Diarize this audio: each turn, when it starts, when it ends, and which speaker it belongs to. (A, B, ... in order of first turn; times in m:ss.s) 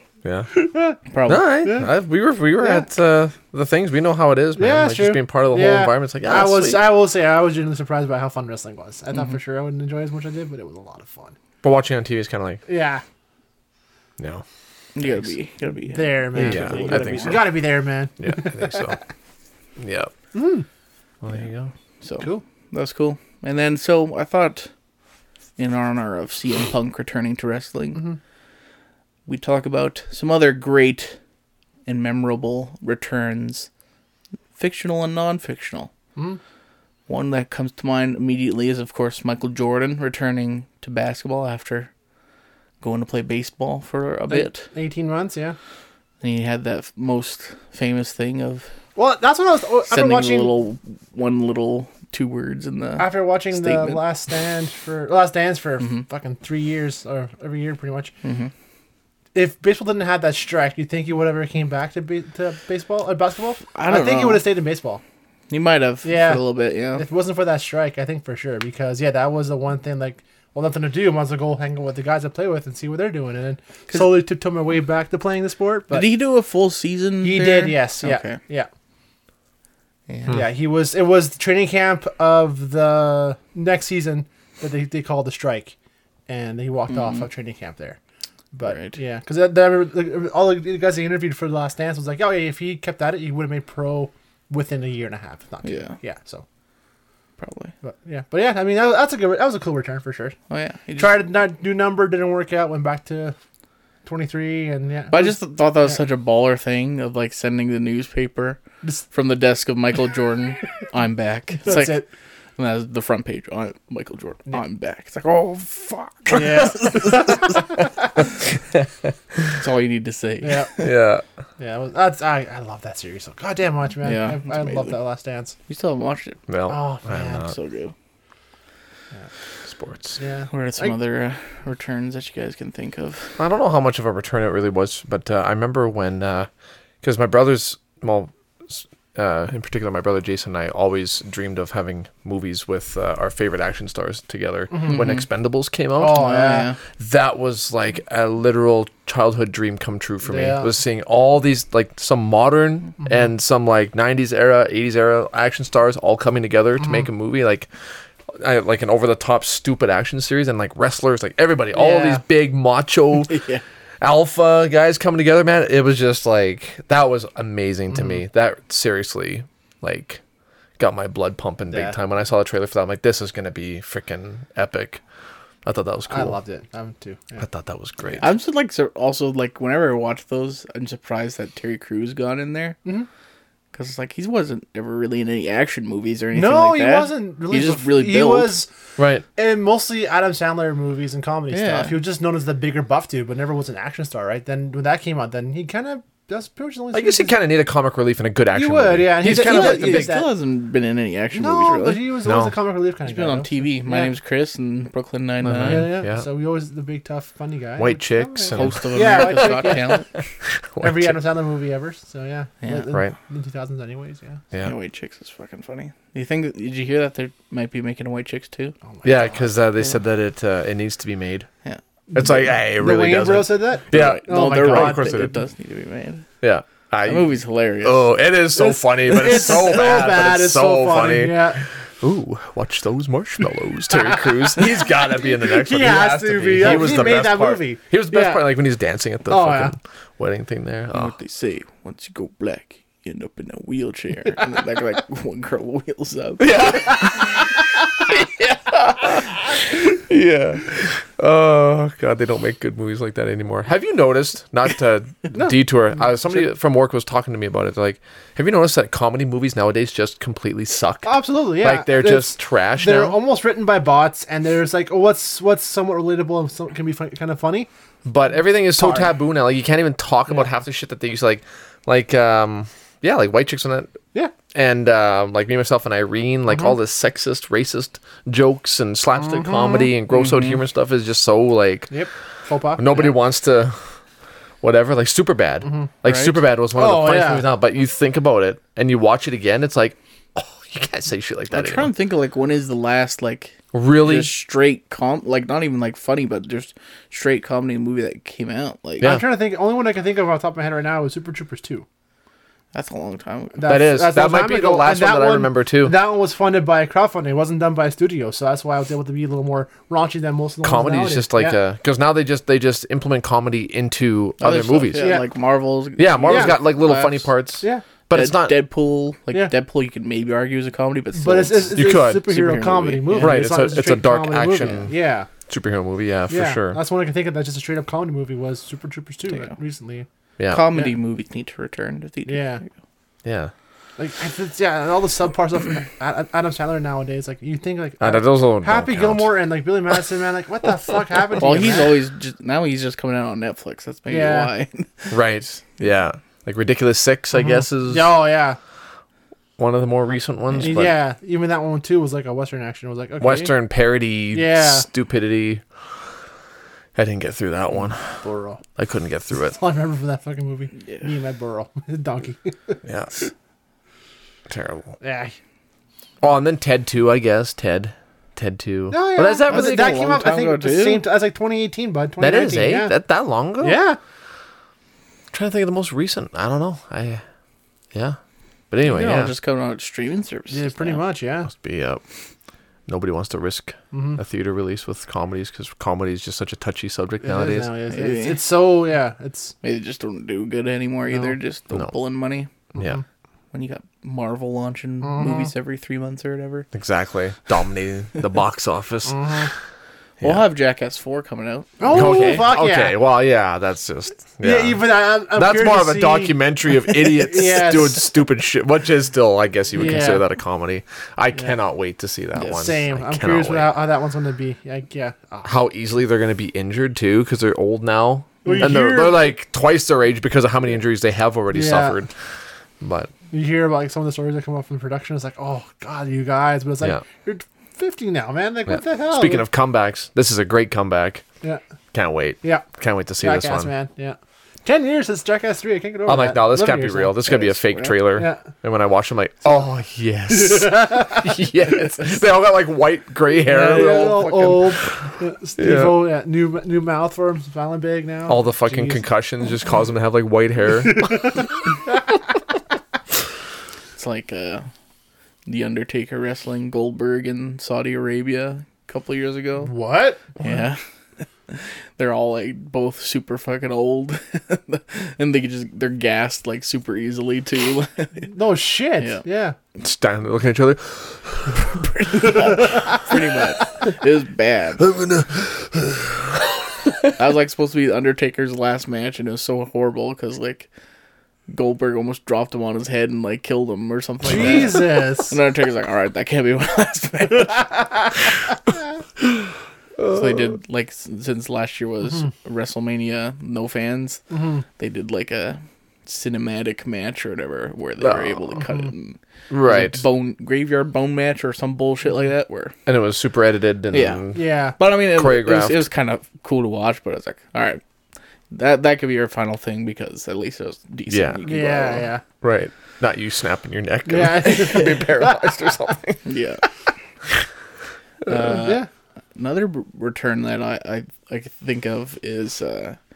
0:00.2-0:00.5 A
0:00.5-0:01.0 B
0:01.1-0:01.4 C
0:01.2-0:06.8 A
0:01.6-0:01.9 B
0:02.6-0:02.9 B
0:04.6-0:11.4 B
0:11.6-0:12.6 A
0:12.6-0:13.0 B
0:14.2-0:14.4 A
0:14.9-0:17.5 C
0:15.9-0:19.0 B
0:16.4-0:17.6 A
0:18.2-0:19.0 A
0:19.8-0:20.1 A
0:20.3-0:20.6 B
0:21.2-0:21.7 A
0:22.0-0:24.7 C
0:25.6-0:28.0 C
0:29.2-0:31.2 C
0:31.8-0:33.7 C
0:34.6-0:35.9 C
0:37.1-0:41.9 C
0:42.8-0:44.7 C
0:44.3-0:45.6 B
0:46.2-0:48.7 C
0:49.0-0:50.5 B
0:49.9-0:54.0 C
0:53.0-0:58.1 B
0:58.2-0:58.5 C
0:59.3-1:05.0 B
1:03.7-1:04.4 C
1:05.5-1:07.0 C
1:06.0-1:16.1 B
1:13.9-1:14.2 C
1:15.9-1:18.4 C
1:17.2-1:18.7 B
1:20.1-1:20.4 C
1:20.3-1:25.7 B
1:26.3-1:28.0 B
1:26.9-1:27.2 C
1:28.5-1:36.4 B
1:28.6-1:29.0 C
1:35.6-1:36.0 C
1:37.4-1:37.7 C
1:37.8-1:40.4 B
1:40.5-1:41.2 C
1:40.9-1:43.4 B
1:44.0-1:45.4 B
1:45.1-1:48.6 C
1:49.1-1:52.0 C
1:51.6-1:52.1 B
1:52.6-1:57.6 C
1:56.3-1:57.8 B
1:58.7-1:59.6 A
1:59.5-2:00.9 C
2:00.4-2:00.7 B
2:00.8-2:01.2 A
2:01.6-2:05.6 B
2:04.0-2:05.0 C
2:05.7-2:06.4 C
2:06.5-2:07.5 A
2:06.7-2:07.5 B
2:07.2-2:07.9 C
2:09.7-2:10.2 A
2:10.2-2:11.0 B
2:10.5-2:13.4 C
2:13.4-2:16.5 A
2:17.0-2:26.2 A
2:24.7-2:25.0 B
2:24.9-2:25.2 C
2:26.0-2:26.7 B
2:26.1-2:26.8 C
2:27.0-2:37.7 A
2:30.2-2:30.7 B
2:38.3-2:43.3 A
2:41.7-2:42.2 B
2:43.3-2:43.6 C
2:44.0-2:50.2 A
2:50.8-2:55.0 A
2:55.6-2:56.4 A
2:56.1-2:57.4 B
2:57.4-2:58.3 A
2:58.2-3:02.8 C
3:03.7-3:08.5 C
3:06.3-3:08.7 B
3:09.0-3:09.2 A
3:09.3-3:17.4 B
3:11.5-3:12.0 C
3:16.9-3:20.2 A
3:18.5-3:20.3 B
3:19.2-3:22.1 C
3:21.3-3:24.1 B
3:22.2-3:22.5 A
3:23.0-3:26.0 C
3:25.4-3:26.2 A
3:25.6-3:30.0 B
3:27.8-3:31.2 A
3:28.5-3:30.1 C
3:30.8-3:34.4 B
3:32.6-3:32.9 C
3:34.6-3:38.7 C
3:38.9-3:39.4 B
3:39.0-3:41.5 A
3:42.1-3:45.3 B
3:42.1-3:45.3 A
3:43.9-3:46.3 C
3:46.4-3:47.3 A
3:47.0-3:48.1 C
3:47.8-4:01.1 A
3:48.5-3:51.6 B
3:49.5-3:49.9 C
3:55.3-3:58.4 B
3:59.3-3:59.7 B
4:00.9-4:07.3 C
4:06.4-4:07.5 A
4:08.1-4:23.2 A
4:15.3-4:15.6 B
4:21.0-4:27.7 B
4:28.0-4:33.9 A
4:28.8-4:29.1 B
4:34.5-4:42.0 A
4:39.2-4:39.9 B
4:40.1-4:40.6 C
4:41.9-4:43.1 B
4:42.8-4:43.8 A
4:44.6-4:51.9 A
4:46.0-4:46.4 C
4:46.7-4:47.4 B
4:51.5-4:59.1 C
4:53.7-4:54.3 A
4:59.0-5:01.8 B
5:02.7-5:03.7 C
5:03.5-5:11.6 B
5:03.7-5:05.9 A
5:10.6-5:15.1 A
5:14.4-5:17.3 C
5:15.0-5:15.2 B
5:16.0-5:18.5 A
5:16.3-5:16.6 B
5:18.1-5:23.4 C
5:21.1-5:25.3 B
5:21.7-5:22.3 A
5:23.2-5:24.9 A
5:25.5-5:26.8 A
5:26.3-5:30.0 B
5:30.4-5:30.6 A
5:30.5-5:32.7 C
5:32.3-5:32.6 B
5:33.2-5:33.5 A
5:34.0-5:42.0 B
5:38.0-5:39.3 A
5:41.4-5:45.2 C
5:44.1-5:44.5 B
5:45.1-5:48.1 A
5:47.3-5:48.6 B
5:49.6-5:50.9 A
5:50.6-5:53.5 B
5:53.2-5:55.6 A
5:54.3-5:54.9 B
5:56.9-5:58.2 A
5:58.2-5:58.6 B
5:58.8-5:59.6 A
5:59.4-6:02.8 B
6:02.8-6:03.1 A
6:04.5-6:05.0 A
6:05.0-6:05.3 B
6:06.2-6:10.0 A
6:08.9-6:13.0 B
6:09.5-6:11.0 C
6:12.2-6:13.8 A
6:13.6-6:14.0 B
6:15.3-6:17.2 A
6:17.9-6:18.2 A
6:18.7-6:19.3 A
6:18.8-6:21.0 C
6:20.5-6:21.5 B
6:21.5-6:22.0 A
6:22.9-6:27.7 A
6:23.9-6:24.2 B
6:27.2-6:29.5 B
6:27.9-6:28.4 C
6:29.6-6:32.5 C
6:32.7-6:33.0 B
6:32.8-6:33.0 A
6:33.5-6:36.7 C
6:35.0-6:35.5 B
6:36.7-6:39.4 A
6:39.1-6:39.5 B
6:40.2-6:42.4 C
6:41.8-6:43.0 B
6:41.9-6:53.7 A
6:44.4-6:48.0 B
6:49.7-6:50.2 B
6:52.4-6:52.7 C
6:52.5-6:55.5 B
6:55.4-7:02.1 A
6:58.4-6:59.2 B
7:01.5-7:02.0 B
7:02.8-7:03.1 A
7:03.3-7:09.4 B
7:08.7-7:11.2 A
7:11.9-7:13.7 A
7:13.2-7:17.2 B
7:16.1-7:25.0 A
7:17.2-7:18.0 C
7:18.2-7:18.4 B
7:20.3-7:21.4 B
7:23.4-7:29.0 B
7:25.6-7:26.0 A
7:28.3-7:31.4 A
7:31.0-7:31.4 B
7:33.9-7:34.7 C
7:35.4-7:39.7 C
7:39.6-7:40.5 B
7:40.4-7:40.8 C
7:41.5-7:48.3 C
7:48.3-7:49.6 B
7:49.8-7:52.6 A
7:52.0-7:54.9 C
7:54.8-7:57.1 A
7:57.2-8:00.7 C
8:01.5-8:07.9 C
8:04.2-8:05.4 B
8:10.0-8:10.5 A
8:10.0-8:14.2 C
8:14.3-8:14.6 B
8:14.8-8:22.7 C
8:18.0-8:18.6 A
8:19.5-8:20.0 A
8:22.9-8:25.8 A
8:23.9-8:27.8 C
8:24.4-8:24.8 B
8:28.5-8:32.1 C
8:31.1-8:31.4 A
8:31.4-8:32.2 B
8:32.4-8:36.2 A
8:34.0-8:35.4 B
8:36.2-8:36.6 C
8:38.2-8:38.8 C
8:38.4-8:38.9 B
8:39.4-8:43.0 C